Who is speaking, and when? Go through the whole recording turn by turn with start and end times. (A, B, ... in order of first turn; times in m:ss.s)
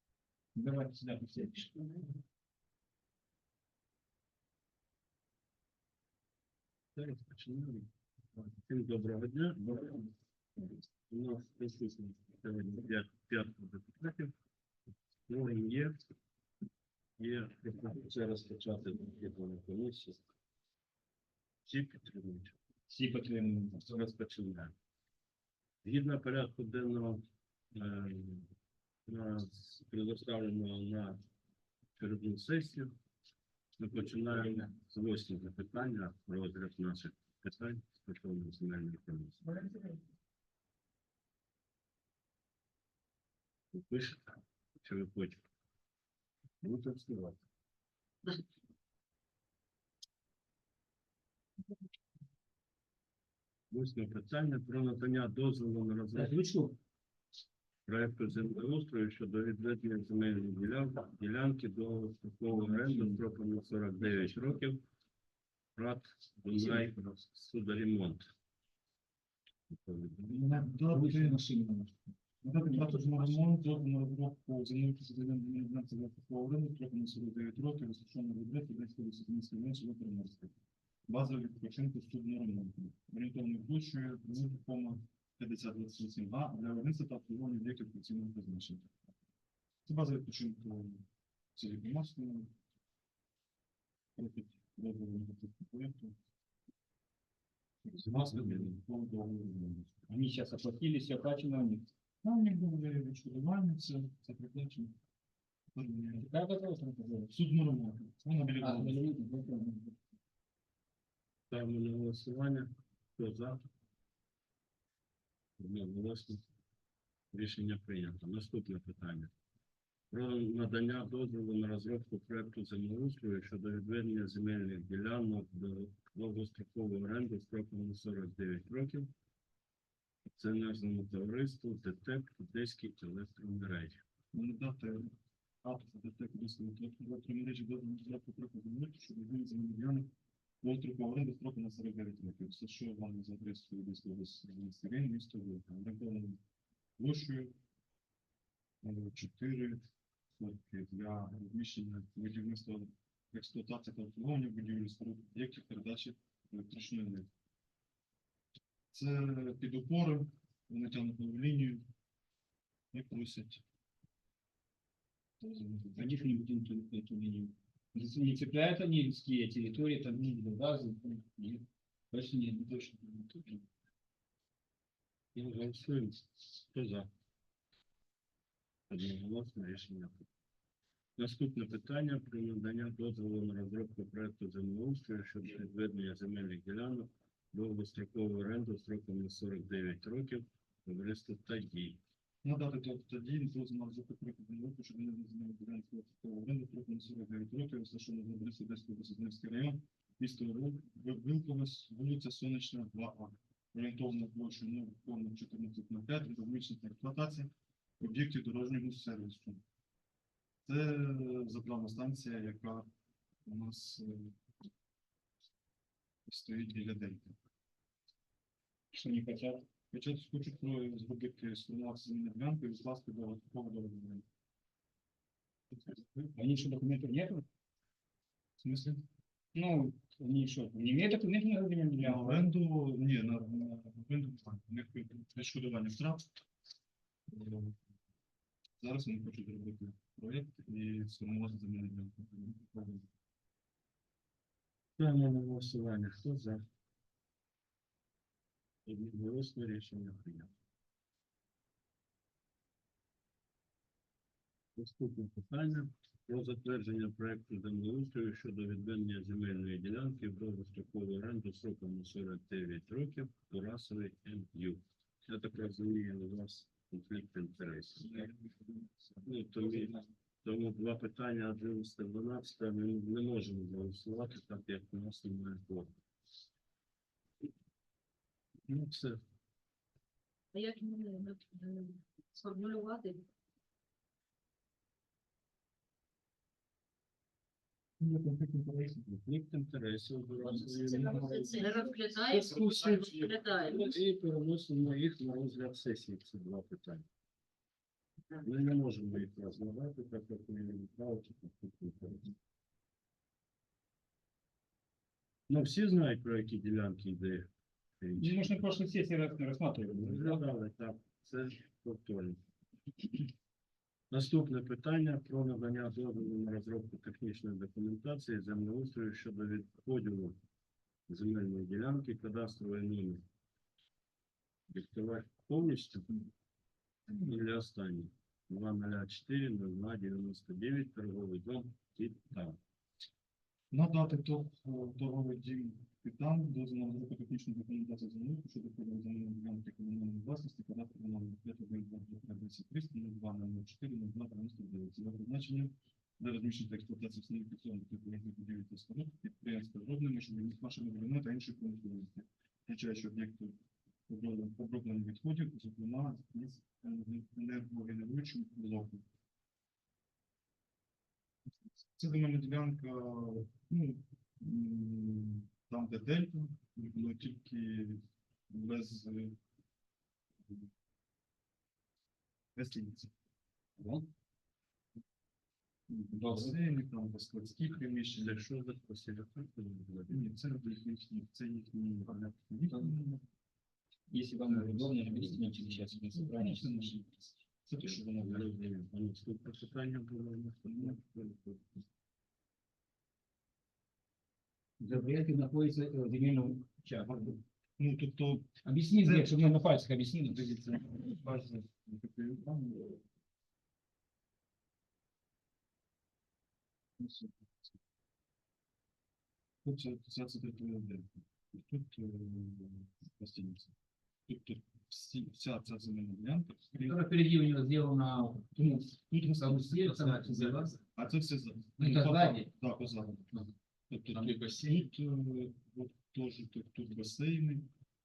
0:00.6-0:02.1 A
0:07.0-0:14.3 B
0:15.3-0:16.0 B
0:17.2-0:20.2 B
0:21.6-0:22.6 B
0:22.9-0:23.9 A
0:23.9-0:24.7 B
0:25.8-0:28.5 B
0:29.1-0:31.2 B
0:32.0-0:32.9 B
0:33.8-0:39.7 B
0:43.7-0:45.4 B
0:46.6-0:47.4 B
0:53.7-0:56.5 B
0:56.2-0:56.8 A
0:57.9-1:04.8 B
1:02.5-1:03.2 A
1:04.0-1:04.5 A
1:05.8-1:08.3 B
1:06.5-1:07.0 A
1:09.7-1:10.5 B
1:10.3-1:11.4 C
1:10.7-1:12.0 A
1:12.4-1:20.5 C
1:12.8-1:13.2 A
1:21.1-1:28.9 C
1:29.9-1:32.5 C
1:34.2-1:36.2 C
1:37.9-1:40.1 C
1:38.0-1:38.7 B
1:40.1-1:41.9 A
1:42.2-1:45.0 C
1:45.7-1:46.3 C
1:46.2-1:47.3 A
1:47.3-1:49.2 C
1:48.6-1:50.0 A
1:51.5-1:53.7 B
1:55.6-1:56.4 B
1:57.3-1:59.3 B
2:00.1-2:09.1 B
2:10.4-2:14.0 B
2:14.3-2:20.1 C
2:20.6-2:26.4 C
2:27.0-2:27.6 C
2:28.8-2:37.3 C
2:38.9-2:41.8 C
2:42.9-2:43.6 C
2:45.4-2:46.2 C
2:45.9-2:52.8 A
2:52.7-2:53.6 C
2:55.4-2:57.1 B
2:58.9-3:00.2 B
3:01.2-3:12.0 B
3:12.4-3:29.6 C
3:30.6-3:32.9 C
3:33.5-3:34.4 C
3:36.3-3:37.4 C
3:38.9-3:39.6 A
3:39.9-3:44.2 C
3:46.3-3:47.4 A
3:48.6-3:49.0 C
3:49.6-3:52.5 A
3:52.0-3:56.3 C
3:57.3-3:57.8 C
3:58.8-4:03.1 C
4:05.0-4:06.6 B
4:08.9-4:10.5 B
4:14.8-4:28.3 B
4:28.0-4:30.0 C
4:29.2-4:35.9 B
4:38.7-4:39.2 B
4:40.5-4:43.3 D
4:48.0-4:49.0 C
4:49.0-4:51.8 B
4:50.5-4:53.9 D
4:51.0-4:53.4 C
4:53.6-4:57.1 B
4:58.4-5:02.3 B
5:05.5-5:08.6 B
5:08.2-5:10.4 A
5:09.9-5:12.4 B
5:14.1-5:20.4 B
5:21.1-5:23.2 B
5:24.7-5:26.3 B
5:27.1-5:32.6 B
5:33.7-5:59.0 C
6:02.0-6:09.4 C
6:12.6-6:13.1 C
6:13.8-6:14.1 A
6:15.9-6:18.4 C
6:16.1-6:16.6 A
6:18.2-6:20.4 B
6:20.1-6:23.2 C
6:24.1-6:27.0 A
6:24.5-6:28.6 C
6:27.9-6:31.6 B
6:30.7-6:31.2 C
6:34.8-6:37.3 A
6:37.0-6:39.3 C
6:38.6-6:40.4 A
6:40.2-6:43.0 C
6:47.0-6:47.3 C
6:49.6-6:53.7 C
6:54.3-6:57.0 C
6:56.9-6:58.8 A
6:58.6-7:03.4 C
6:59.3-7:00.8 A
7:01.8-7:02.5 A
7:03.9-7:07.7 C
7:04.2-7:04.8 A